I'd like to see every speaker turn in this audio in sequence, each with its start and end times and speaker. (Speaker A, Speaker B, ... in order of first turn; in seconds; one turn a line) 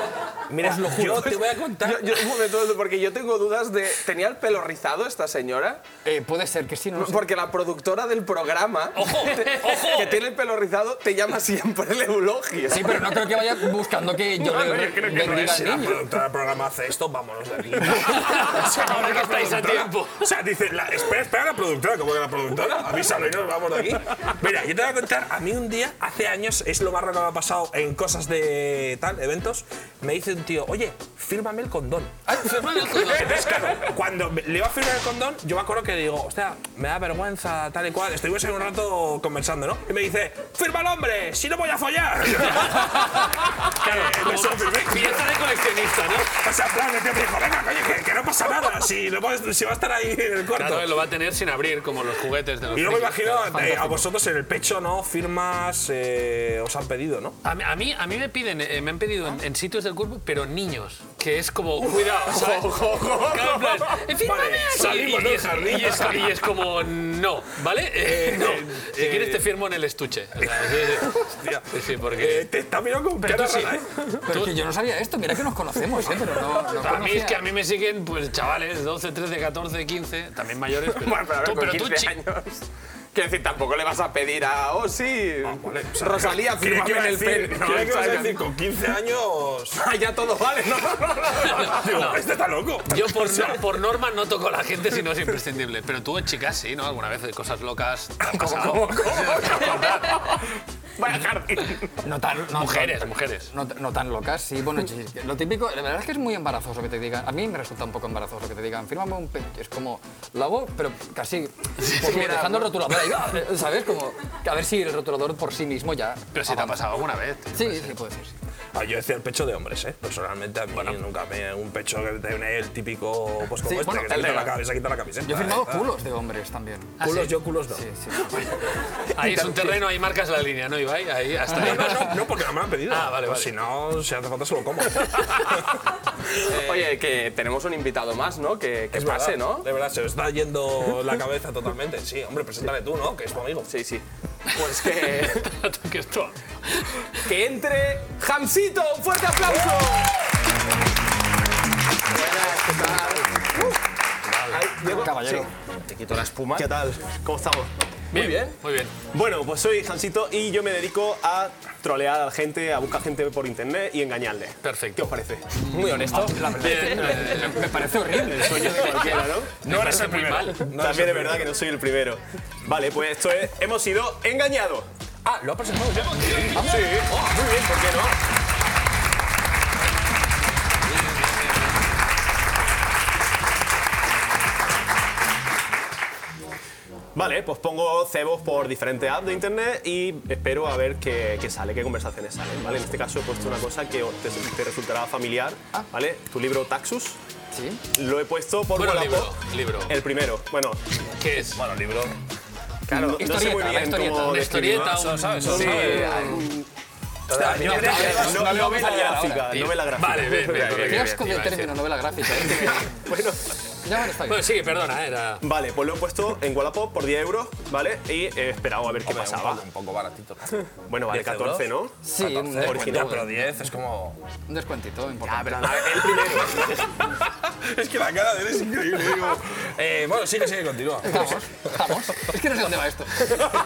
Speaker A: 0.5-2.2
Speaker B: 0.7-1.0
Speaker C: 0.9-5.8
Speaker B: 6.0-7.2
Speaker C: 7.0-13.4
Speaker D: 8.9-10.2
Speaker B: 12.7-16.0
Speaker A: 14.4-45.3
Speaker C: 14.5-15.1
Speaker D: 18.2-20.3
Speaker D: 32.3-33.7
Speaker D: 42.4-46.3
Speaker A: 46.3-51.0
Speaker D: 50.5-54.1
Speaker A: 52.7-57.4
Speaker D: 57.4-71.2
Speaker C: 61.9-64.0
Speaker A: 64.2-66.4
Speaker A: 68.0-69.5
Speaker A: 70.4-74.2
Speaker D: 71.7-72.5
Speaker D: 73.2-74.6
Speaker B: 74.3-77.4
Speaker D: 76.7-82.2
Speaker C: 80.8-88.5
Speaker A: 85.4-89.8
Speaker C: 89.8-91.9
Speaker A: 91.4-93.8
Speaker D: 91.7-92.2
Speaker D: 92.9-100.2
Speaker A: 98.2-100.0
Speaker C: 98.4-100.4
Speaker C: 101.0-101.9
Speaker B: 102.0-116.9
Speaker D: 102.5-103.5
Speaker D: 111.8-112.5
Speaker C: 112.0-112.7
Speaker D: 116.3-118.0
Speaker B: 117.5-118.4
Speaker A: 118.7-125.9
Speaker D: 120.7-121.0
Speaker B: 123.6-124.2
Speaker C: 124.0-124.5
Speaker B: 125.2-127.0
Speaker D: 127.0-127.4
Speaker A: 127.0-127.8
Speaker B: 127.7-128.5
Speaker D: 129.1-132.3
Speaker C: 129.2-129.8
Speaker A: 131.5-135.8
Speaker B: 131.6-132.0
Speaker D: 132.9-133.5
Speaker C: 136.5-139.7
Speaker A: 138.9-143.7
Speaker C: 143.7-145.5
Speaker D: 145.0-147.2
Speaker C: 147.2-150.1
Speaker C: 152.1-153.6
Speaker D: 154.3-154.7
Speaker E: 154.5-155.5
Speaker C: 154.8-156.7
Speaker B: 154.8-155.5
Speaker E: 156.5-157.7
Speaker D: 158.1-158.9
Speaker C: 158.1-158.6
Speaker E: 159.1-165.6
Speaker D: 164.6-165.0
Speaker C: 165.6-166.9
Speaker D: 165.7-167.6
Speaker B: 166.1-169.1
Speaker E: 168.1-169.6
Speaker D: 168.7-170.7
Speaker A: 169.6-171.5
Speaker E: 170.7-174.9
Speaker A: 175.2-176.7
Speaker B: 176.6-177.0
Speaker E: 176.6-178.2
Speaker E: 187.2-197.2
Speaker B: 197.5-197.8
Speaker E: 197.9-200.8
Speaker D: 198.8-200.0
Speaker D: 201.2-201.6
Speaker A: 201.6-202.2
Speaker E: 202.9-206.7
Speaker C: 202.9-203.2
Speaker B: 203.2-204.8
Speaker D: 204.0-206.2
Speaker A: 204.8-206.3
Speaker C: 205.5-206.5
Speaker B: 205.5-206.4
Speaker C: 207.3-208.7
Speaker A: 207.3-208.6
Speaker B: 207.6-209.6
Speaker E: 207.9-210.9
Speaker D: 209.5-211.8
Speaker C: 210.5-211.1
Speaker B: 210.7-213.1
Speaker D: 212.3-212.7
Speaker E: 213.0-213.4
Speaker B: 213.8-214.5
Speaker D: 214.3-215.5
Speaker E: 215.4-219.7
Speaker A: 219.0-224.2
Speaker E: 220.9-222.0
Speaker B: 222.0-223.6
Speaker E: 222.5-223.2
Speaker B: 224.5-225.9
Speaker E: 225.5-226.7
Speaker A: 225.9-231.9
Speaker B: 231.0-233.4